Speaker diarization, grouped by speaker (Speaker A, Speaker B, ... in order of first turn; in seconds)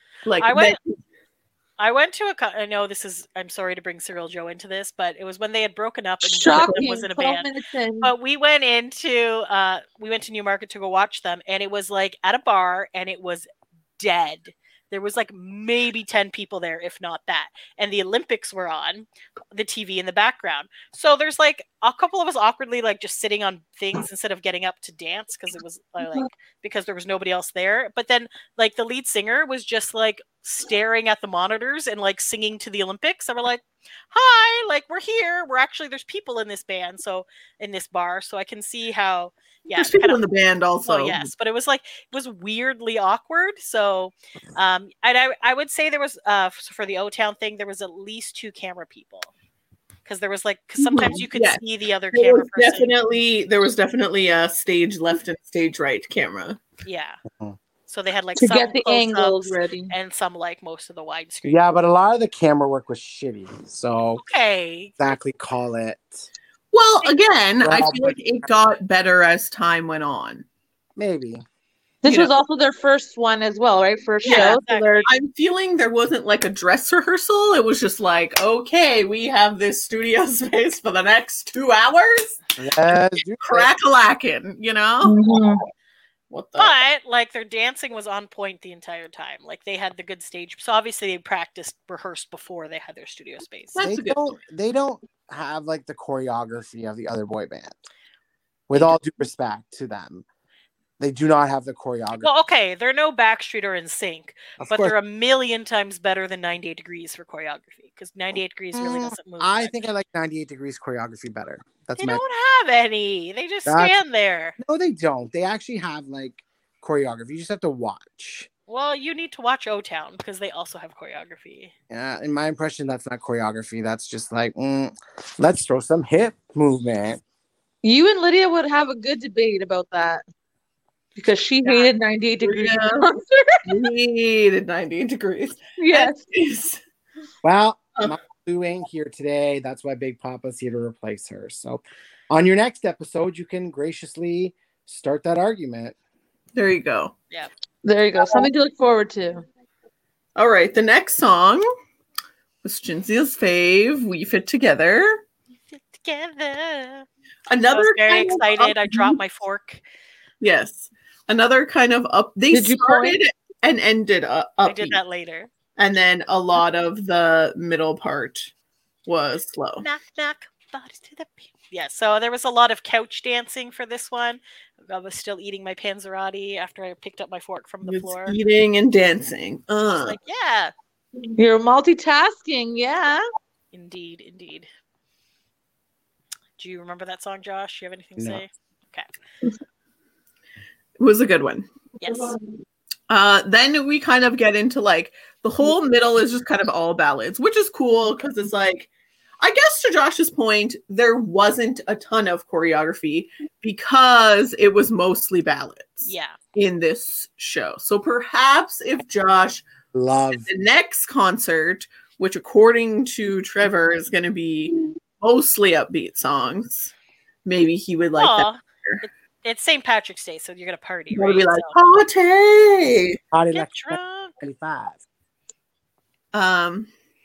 Speaker A: 0.2-0.9, 6.5-6.8, 39.7-41.3, 50.8-51.6, 52.1-56.6, 66.7-70.4, 72.0-72.3, 74.2-82.4, 83.4-85.5, 86.3-86.7, 93.7-94.4, 132.4-133.1, 133.7-136.8, 146.5-147.1, 148.2-148.5, 150.3-151.6, 152.6-155.2, 157.5-159.2, 160.4-165.0, 165.8-168.5, 169.1-169.8, 177.8-180.2, 191.0-191.7, 193.1-198.9, 199.4-209.6, 210.3-216.9, 217.4-219.0, 221.1-223.2, 226.3-226.9
Speaker B: 0.4-0.8, 1.8-7.5, 8.0-13.5, 14.0-40.2, 40.8-49.3, 50.0-52.9, 56.8-57.2, 57.9-61.7, 64.2-64.9, 74.2-75.1, 86.6-93.8, 102.2-109.8, 112.0-114.5, 118.7-121.7, 131.6-131.9, 155.7-157.1, 157.7-159.8, 164.7-165.5, 169.8-178.3, 179.9-180.7, 183.7-184.7, 186.6-189.1, 192.0-192.3, 206.1-206.3, 218.2-221.7, 223.5-224.3
Speaker C: 6.2-8.1, 58.4-59.9, 72.0-75.0, 85.0-85.6, 127.8-130.2, 131.1-133.8, 135.8-136.2, 147.8-149.4, 162.5-163.2, 181.3-183.2
Speaker D: 57.3-57.6, 61.4-64.2, 65.0-66.2, 67.6-68.2, 71.0-71.4, 82.6-83.7, 93.8-97.8, 98.7-100.2, 101.0-102.3, 104.6-104.9, 108.7-112.2, 113.7-113.9, 114.6-118.5, 121.9-127.2, 137.4-145.9, 188.2-188.4, 209.9-210.5, 223.3-225.0